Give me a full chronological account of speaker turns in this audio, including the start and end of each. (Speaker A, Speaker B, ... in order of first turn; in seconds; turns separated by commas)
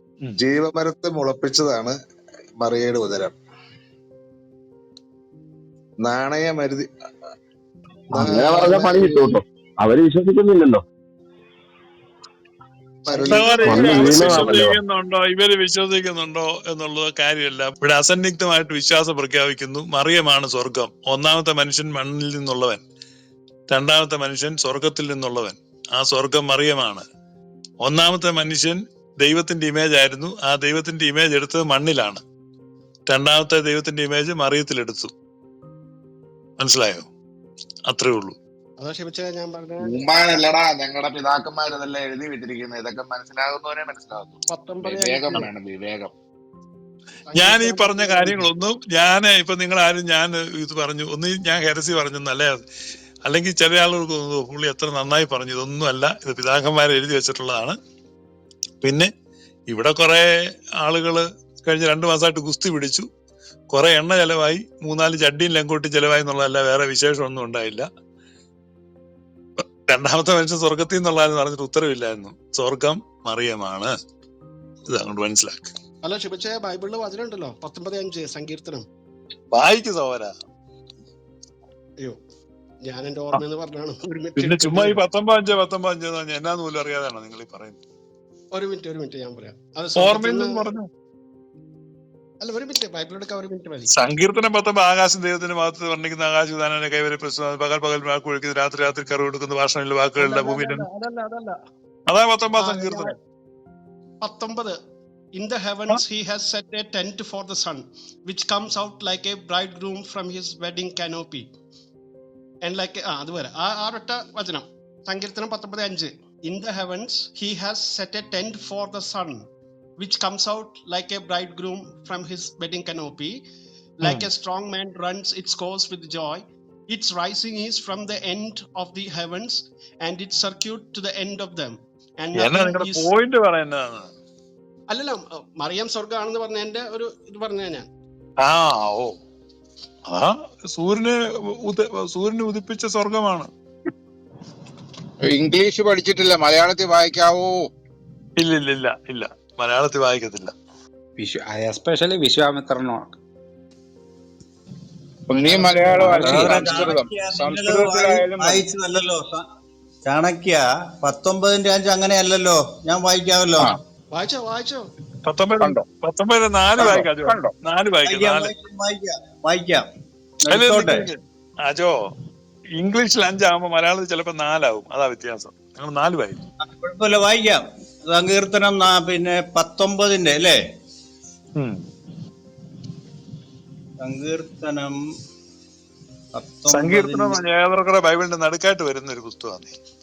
Speaker A: 0.4-1.9, Speaker A: 2.6-3.4, Speaker A: 6.0-6.9, Speaker A: 8.1-9.4, Speaker B: 8.2-10.8, Speaker A: 13.0-14.5, Speaker C: 13.2-22.8, Speaker B: 13.7-14.7, Speaker C: 23.7-27.0, Speaker C: 27.8-32.2, Speaker C: 33.1-35.1, Speaker C: 36.6-37.1, Speaker C: 37.9-38.4, Speaker D: 38.8-40.0, Speaker E: 39.8-46.1, Speaker D: 44.5-45.5, Speaker D: 47.3-48.5, Speaker C: 47.3-52.6, Speaker C: 53.2-57.8, Speaker C: 58.8-59.1, Speaker C: 59.7-60.3, Speaker C: 60.8-63.0, Speaker C: 63.7-67.8, Speaker C: 69.6-73.9, Speaker C: 74.9-75.7, Speaker D: 76.0-78.8, Speaker C: 79.5-80.3, Speaker D: 82.8-85.0, Speaker C: 84.4-87.8, Speaker D: 88.5-90.7, Speaker C: 90.0-90.9, Speaker D: 92.4-93.9, Speaker C: 94.0-100.8, Speaker D: 100.2-101.5, Speaker C: 102.1-103.1, Speaker D: 102.6-103.1, Speaker D: 104.2-104.8, Speaker D: 105.3-111.5, Speaker D: 112.6-119.5, Speaker D: 120.0-123.4, Speaker D: 124.0-133.1, Speaker C: 132.4-134.1, Speaker D: 134.9-137.9, Speaker C: 138.4-139.2, Speaker C: 140.1-143.5, Speaker E: 145.2-147.7, Speaker C: 148.4-150.5, Speaker F: 151.2-153.2, Speaker E: 155.3-158.6, Speaker G: 155.4-159.4, Speaker F: 155.6-156.6, Speaker G: 160.1-163.7, Speaker D: 164.1-164.8, Speaker C: 165.2-168.5, Speaker F: 166.8-167.5, Speaker G: 168.1-169.8, Speaker G: 170.4-171.1, Speaker C: 170.5-171.9, Speaker C: 172.8-176.4, Speaker G: 176.6-180.6, Speaker G: 184.0-185.0, Speaker G: 186.3-187.4, Speaker C: 186.7-189.7